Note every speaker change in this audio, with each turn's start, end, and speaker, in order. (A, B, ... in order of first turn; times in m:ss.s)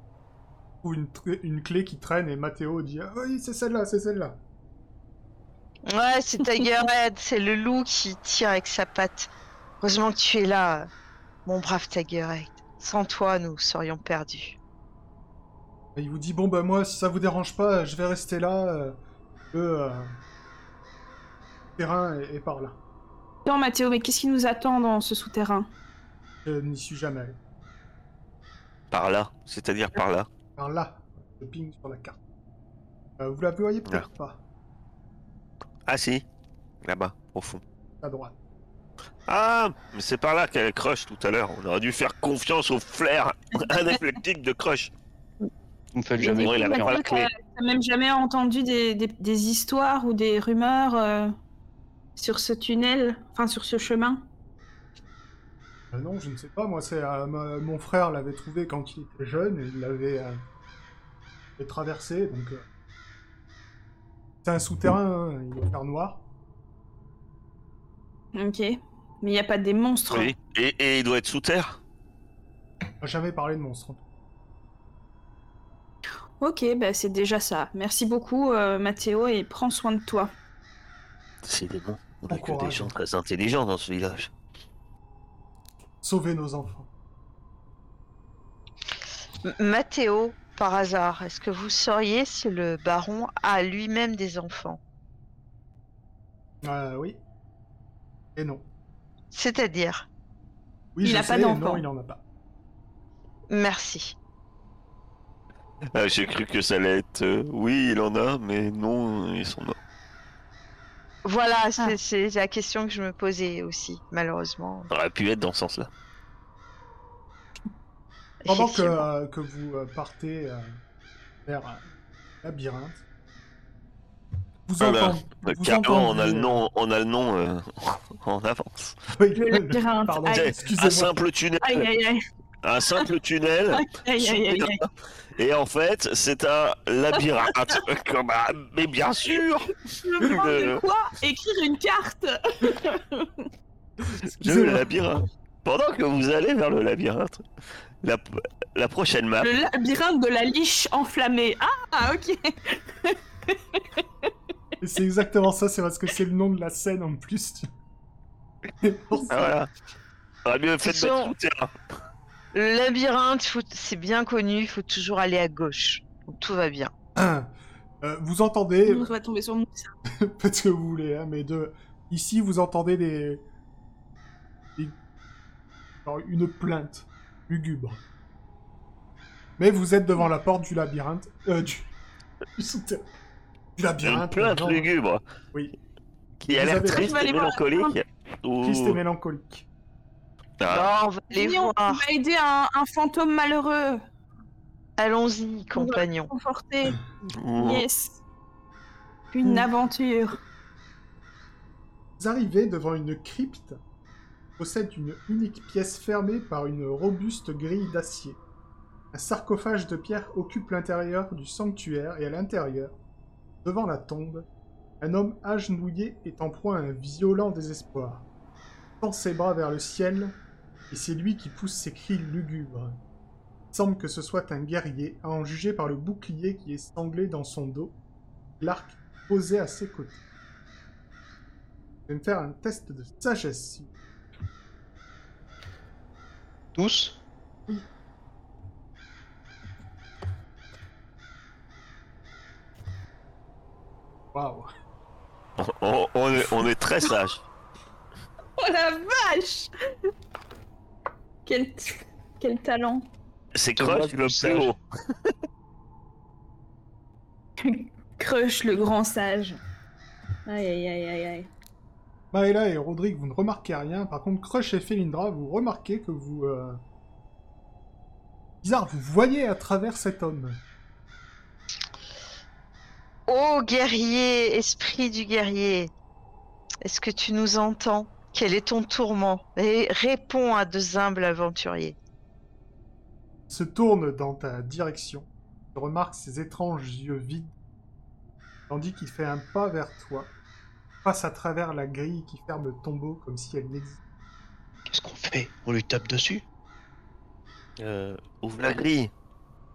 0:00.8-0:04.4 A
0:05.9-0:10.9 B
0:11.4-0:14.6 B
0:16.0-0:19.0 A
0:19.5-0:20.1 A
0:21.8-0:22.8 A
0:23.4-0:25.7 C
0:26.4-0:27.4 A
0:28.9-0:30.3 D
0:30.6-0:32.2 A
0:33.2-0:34.4 A
0:35.9-0:36.2 D
0:36.8-0:37.6 D
0:38.0-0:38.4 A
0:39.3-0:44.9 D
0:45.9-0:47.0 E
0:46.2-0:51.3 C
0:46.3-0:47.3 D
0:52.2-0:54.2 C
0:55.9-1:00.4 A
1:01.6-1:02.7 A
1:04.4-1:06.2 A
1:08.3-1:10.3 C
1:10.1-1:11.8 D
1:13.0-1:14.0 A
1:16.4-1:20.3 C
1:21.4-1:24.3 D
1:22.3-1:22.9 A
1:26.0-1:26.9 A
1:29.4-1:34.8 B
1:36.6-1:37.2 A
1:38.4-1:38.6 A
1:39.3-1:40.1 B
1:41.0-1:42.2 A
1:41.0-1:41.8 C
1:43.5-1:44.2 B
1:45.9-1:49.8 D
1:51.2-1:54.9 B
1:54.9-1:55.9 D
1:58.4-1:59.1 B
1:58.5-2:00.7 A
2:01.5-2:01.9 A
2:02.4-2:03.0 A
2:04.7-2:06.6 A
2:04.8-2:09.0 D
2:09.2-2:11.2 A
2:09.4-2:10.5 C
2:10.3-2:11.9 D
2:11.6-2:12.2 C
2:12.6-2:14.7 D
2:13.7-2:14.9 C
2:15.4-2:20.8 D
2:19.9-2:23.4 C
2:24.1-2:24.9 A
2:24.3-2:27.4 D
2:28.0-2:29.5 D
2:29.4-2:34.0 C
2:34.8-2:37.6 A
2:38.8-2:39.5 A
2:39.3-2:39.7 D
2:40.4-2:41.7 D
2:40.8-2:41.3 B
2:42.5-2:46.9 B
2:47.2-2:49.1 A
2:48.9-2:49.9 C
2:50.2-2:53.4 A
2:56.0-2:58.0 A
2:59.6-3:01.9 A
3:02.6-3:03.1 A
3:03.8-3:04.9 A
3:04.0-3:05.2 D
3:06.4-3:09.0 D
3:06.5-3:07.2 A
3:06.9-3:08.0 C
3:08.6-3:09.7 A
3:10.6-3:10.9 D
3:10.7-3:12.0 B
3:11.3-3:14.0 C
3:15.0-3:16.3 B
3:15.8-3:17.0 C
3:17.4-3:17.8 D
3:17.6-3:18.2 C
3:19.3-3:20.4 C
3:22.2-3:23.8 A
3:24.6-3:28.4 A
3:29.1-3:33.0 A
3:33.6-3:34.5 A
3:35.0-3:38.3 A
3:39.0-3:40.4 A
3:40.9-3:43.0 A
3:43.7-3:48.0 A
3:48.6-3:50.2 A
3:52.1-3:53.9 A
3:56.8-3:57.2 E
4:04.3-4:04.7 A
4:05.6-4:07.4 D
4:08.6-4:09.7 C
4:11.5-4:13.1 C
4:13.6-4:14.8 D
4:13.8-4:14.7 E
4:17.6-4:19.6 C
4:20.5-4:21.5 C
4:22.3-4:26.8 A
4:28.6-4:30.6 A
4:33.3-4:35.9 B
4:36.8-4:42.0 B
4:43.5-4:47.5 A
4:48.7-4:50.3 A
4:51.0-4:54.0 A
4:54.9-4:56.4 E
4:57.8-4:59.1 D